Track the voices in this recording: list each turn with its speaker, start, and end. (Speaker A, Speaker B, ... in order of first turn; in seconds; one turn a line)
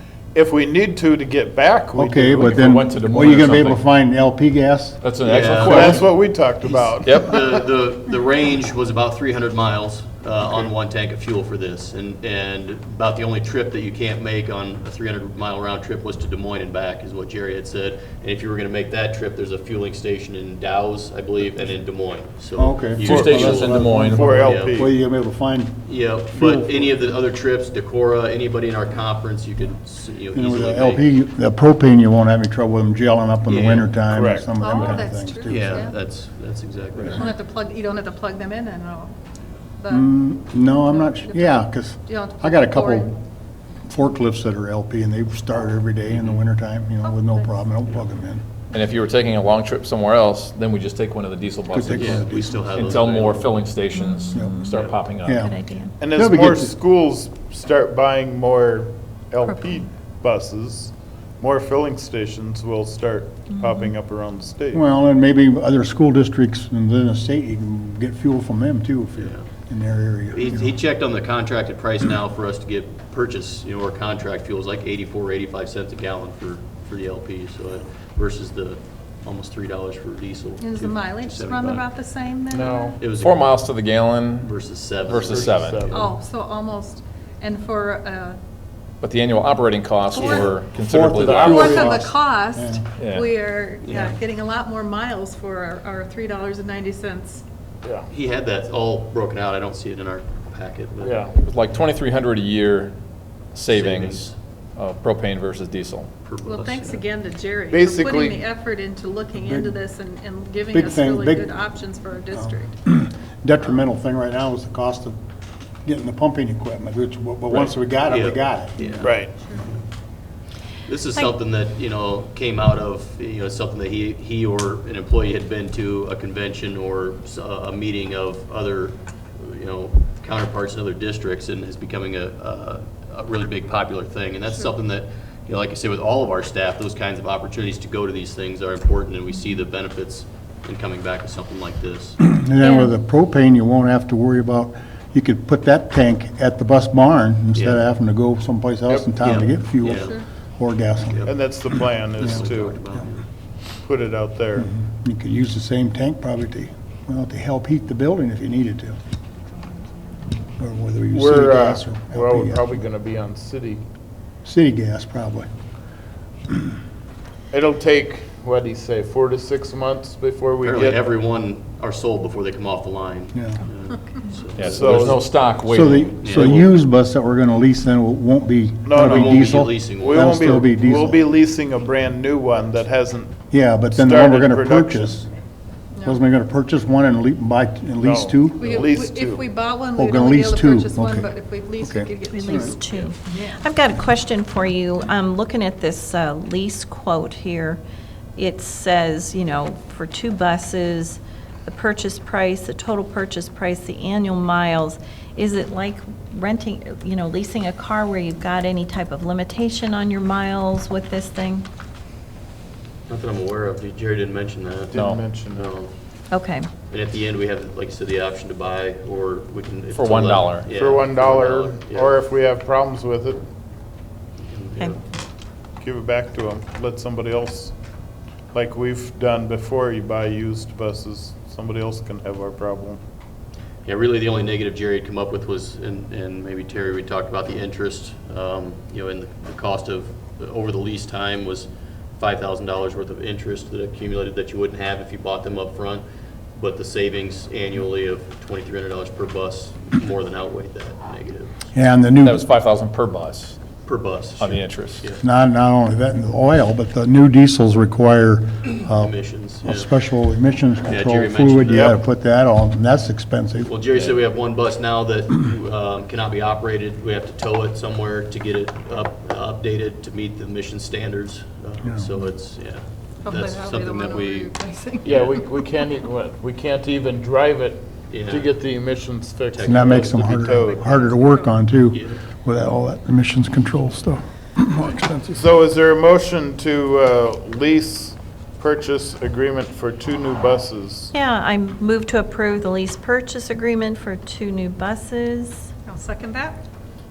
Speaker A: 0.3-2.7
Speaker B: 1.9-5.0
Speaker C: 2.4-3.9
Speaker C: 5.0-6.1
Speaker D: 5.2-6.1
Speaker A: 5.2-7.5
Speaker C: 6.7-7.4
Speaker D: 7.2-24.9
Speaker A: 10.4-10.7
Speaker B: 22.6-27.0
Speaker C: 23.0-24.5
Speaker A: 23.1-24.9
Speaker D: 25.8-31.1
Speaker B: 30.3-35.9
Speaker D: 33.5-34.0
Speaker A: 34.1-35.0
Speaker E: 34.5-36.0
Speaker D: 35.5-37.3
Speaker B: 37.0-37.2
Speaker E: 37.2-39.1
Speaker E: 39.8-43.1
Speaker B: 39.9-43.1
Speaker B: 43.8-48.4
Speaker D: 46.1-46.4
Speaker E: 47.0-47.6
Speaker C: 48.7-55.5
Speaker B: 51.7-52.6
Speaker D: 51.8-53.5
Speaker F: 53.9-54.8
Speaker D: 54.7-55.0
Speaker B: 55.2-55.5
Speaker F: 55.4-55.9
Speaker A: 56.0-64.8
Speaker B: 56.1-56.7
Speaker F: 59.5-59.8
Speaker F: 63.5-63.9
Speaker B: 64.7-70.8
Speaker D: 69.2-69.5
Speaker D: 70.3-81.8
Speaker E: 80.6-83.0
Speaker A: 82.5-83.0
Speaker D: 83.0-83.5
Speaker C: 83.1-84.5
Speaker D: 84.4-86.1
Speaker C: 85.0-85.9
Speaker A: 85.1-86.1
Speaker E: 85.9-88.4
Speaker C: 89.0-92.0
Speaker E: 90.1-90.5
Speaker D: 90.2-90.5
Speaker B: 90.9-92.8
Speaker A: 91.3-91.5
Speaker E: 91.4-97.4
Speaker C: 93.0-93.3
Speaker D: 93.8-94.2
Speaker A: 97.8-98.1
Speaker D: 98.1-101.3
Speaker A: 101.0-101.3
Speaker C: 101.3-102.9
Speaker C: 103.5-106.1
Speaker D: 103.7-104.3
Speaker D: 106.2-107.1
Speaker E: 106.4-112.7
Speaker A: 107.7-108.5
Speaker B: 109.4-109.7
Speaker B: 110.7-111.7
Speaker B: 112.3-115.2
Speaker B: 115.8-118.8
Speaker D: 117.5-119.8
Speaker A: 119.0-119.3
Speaker D: 120.8-142.2
Speaker B: 142.2-151.3
Speaker F: 142.6-142.9
Speaker D: 147.5-147.8
Speaker A: 148.9-149.4
Speaker D: 149.2-150.2
Speaker E: 150.0-150.2
Speaker D: 151.0-153.2
Speaker A: 151.2-152.8
Speaker B: 152.2-152.5
Speaker A: 153.8-154.7
Speaker B: 154.6-159.0
Speaker B: 160.6-162.8
Speaker A: 161.1-163.8
Speaker B: 164.4-165.5
Speaker A: 167.5-171.1
Speaker D: 170.6-175.3
Speaker B: 173.3-173.6
Speaker C: 174.5-176.6
Speaker A: 174.7-175.2
Speaker B: 175.7-181.2
Speaker D: 176.2-176.7
Speaker A: 178.8-185.2
Speaker D: 179.0-180.6
Speaker B: 183.5-185.3
Speaker B: 186.0-188.9
Speaker A: 188.0-189.5
Speaker E: 188.6-193.6
Speaker B: 189.9-192.7
Speaker F: 192.3-197.8
Speaker F: 198.3-211.7
Speaker D: 213.1-215.9
Speaker A: 214.9-215.7
Speaker C: 214.9-215.2
Speaker F: 216.3-216.7
Speaker D: 216.9-222.2
Speaker C: 219.9-220.7
Speaker A: 220.7-223.4
Speaker D: 224.5-225.0
Speaker A: 225.8-227.7
Speaker A: 228.5-233.0
Speaker D: 233.8-251.7
Speaker B: 251.7-252.4
Speaker C: 252.2-253.6
Speaker D: 253.8-255.2
Speaker C: 254.4-255.1
Speaker B: 255.2-263.7
Speaker D: 258.9-259.9
Speaker D: 260.9-262.0
Speaker D: 263.6-274.5
Speaker B: 271.8-272.1
Speaker E: 273.2-275.4
Speaker D: 275.0-275.4
Speaker A: 275.0-280.9
Speaker D: 278.1-278.5
Speaker D: 279.5-280.7
Speaker B: 279.6-285.4
Speaker E: 280.7-281.6
Speaker D: 281.9-282.2
Speaker A: 285.3-291.1
Speaker F: 291.1-295.7
Speaker E: 295.9-296.6